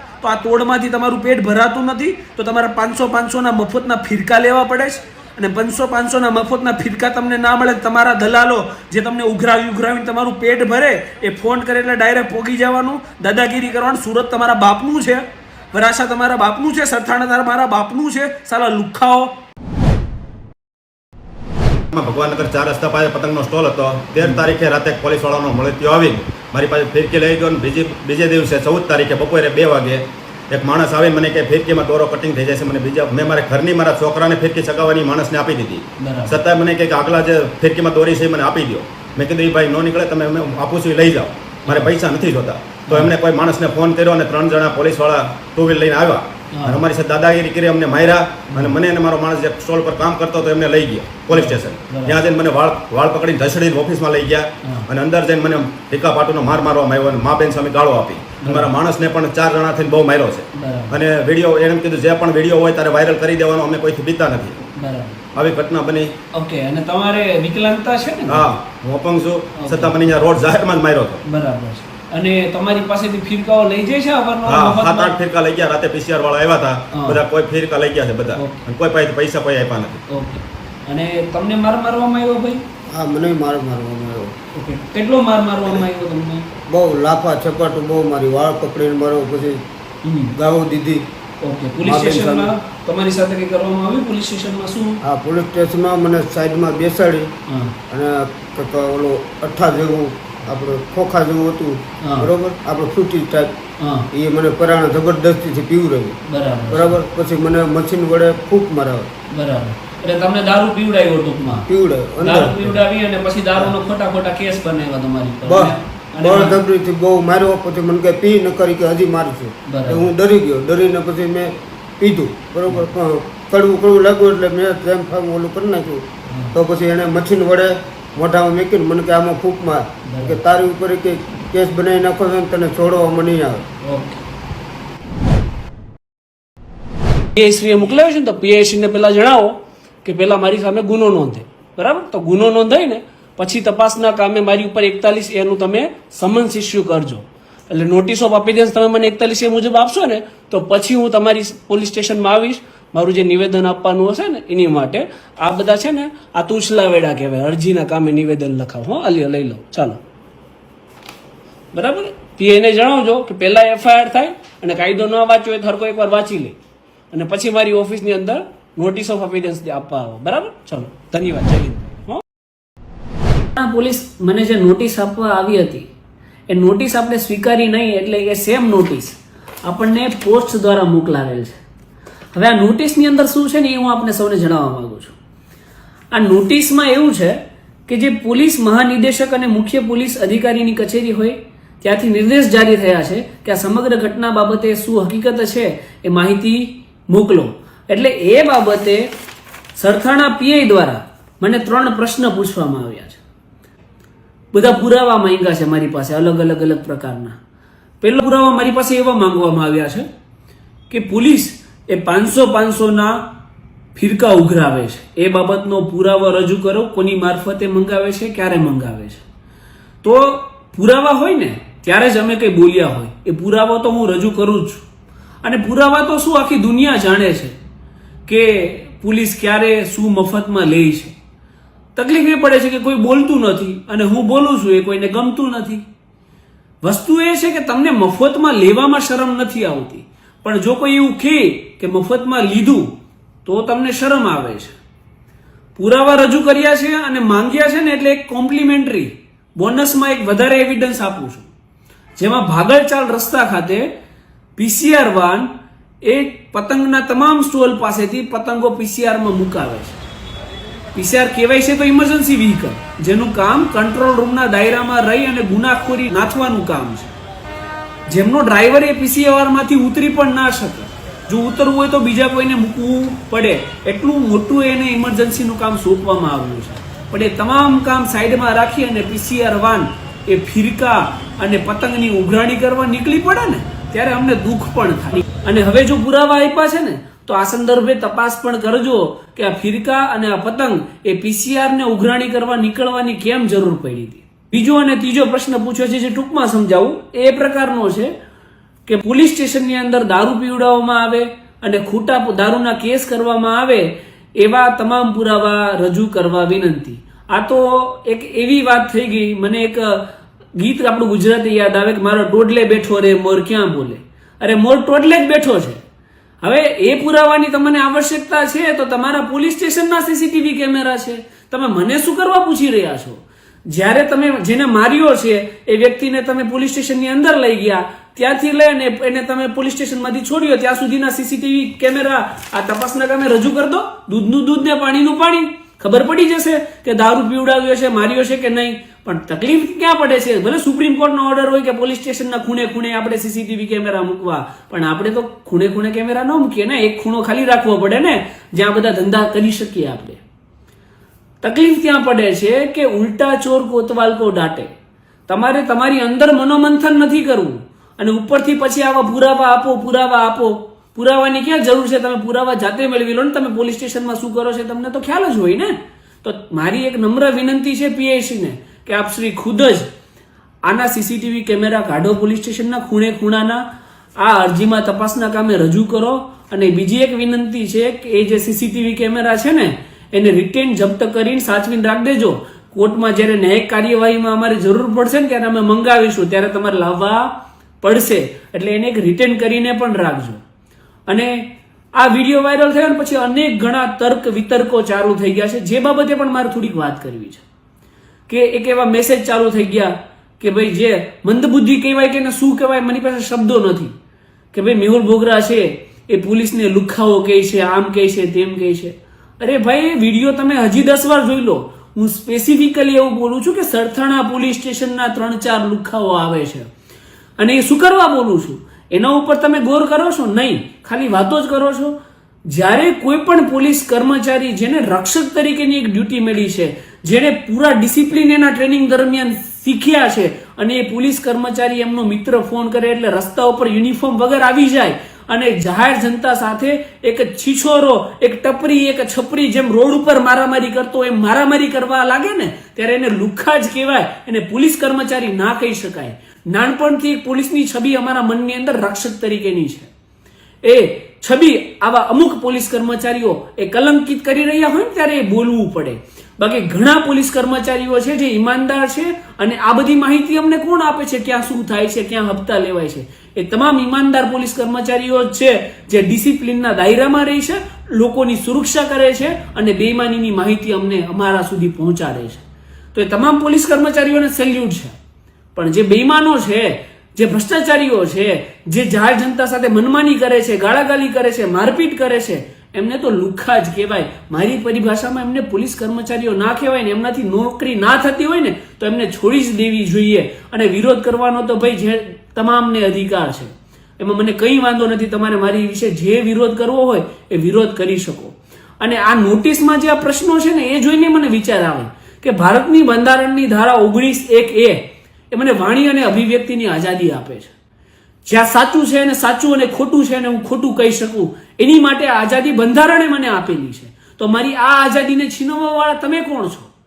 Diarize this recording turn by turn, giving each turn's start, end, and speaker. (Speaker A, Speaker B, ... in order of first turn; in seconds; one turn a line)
Speaker A: 0.2-19.3
Speaker B: 21.9-64.6
Speaker A: 36.0-36.4
Speaker A: 41.7-41.9
Speaker A: 42.9-43.1
Speaker A: 46.5-46.8
Speaker A: 48.5-48.8
Speaker A: 51.3-52.2
Speaker A: 54.6-54.9
Speaker A: 58.4-58.7
Speaker A: 60.5-61.0
Speaker A: 64.8-65.2
Speaker B: 65.3-66.1
Speaker A: 66.3-68.5
Speaker B: 68.3-71.2
Speaker A: 69.6-70.0
Speaker A: 71.3-75.1
Speaker B: 74.5-80.0
Speaker A: 76.9-77.2
Speaker A: 78.4-78.7
Speaker A: 80.1-82.6
Speaker C: 82.9-84.3
Speaker A: 84.5-86.5
Speaker C: 86.7-89.6
Speaker A: 90.0-90.3
Speaker C: 90.3-91.0
Speaker A: 91.4-95.0
Speaker C: 91.8-92.5
Speaker C: 95.0-97.3
Speaker A: 97.5-97.8
Speaker C: 97.9-103.6
Speaker A: 102.0-102.3
Speaker A: 103.8-104.1
Speaker C: 104.1-106.2
Speaker A: 106.3-107.0
Speaker C: 106.7-109.1
Speaker A: 109.3-111.7
Speaker C: 111.7-112.8
Speaker A: 112.2-116.6
Speaker C: 115.5-133.7
Speaker A: 119.7-120.1
Speaker A: 126.3-126.5
Speaker A: 130.1-130.4
Speaker A: 133.8-134.2
Speaker A: 137.3-160.0
Speaker A: 161.7-166.6
Speaker A: 167.1-172.2
Speaker A: 173.6-175.9
Speaker A: 176.5-181.6
Speaker A: 182.3-185.2
Speaker A: 186.1-199.1
Speaker A: 199.8-203.2
Speaker A: 204.5-207.4
Speaker A: 208.0-210.1
Speaker A: 210.9-213.2
Speaker A: 213.9-219.2
Speaker A: 220.0-224.8
Speaker A: 225.4-227.6
Speaker A: 228.3-231.2
Speaker A: 231.9-235.9
Speaker A: 236.8-242.9
Speaker A: 243.4-244.7
Speaker A: 245.8-251.5
Speaker A: 252.2-253.9
Speaker A: 254.6-255.5
Speaker A: 256.0-260.0
Speaker A: 260.9-267.1
Speaker A: 268.1-298.1
Speaker A: 298.9-315.8
Speaker A: 316.4-350.2
Speaker A: 351.4-354.7
Speaker A: 355.3-369.9
Speaker A: 370.6-373.6
Speaker A: 374.2-390.4
Speaker A: 391.1-397.4
Speaker A: 398.3-403.9
Speaker A: 404.5-416.7
Speaker A: 417.4-421.9
Speaker A: 422.5-449.9
Speaker A: 450.6-472.4
Speaker A: 472.9-474.9
Speaker A: 475.6-507.5
Speaker A: 508.2-516.7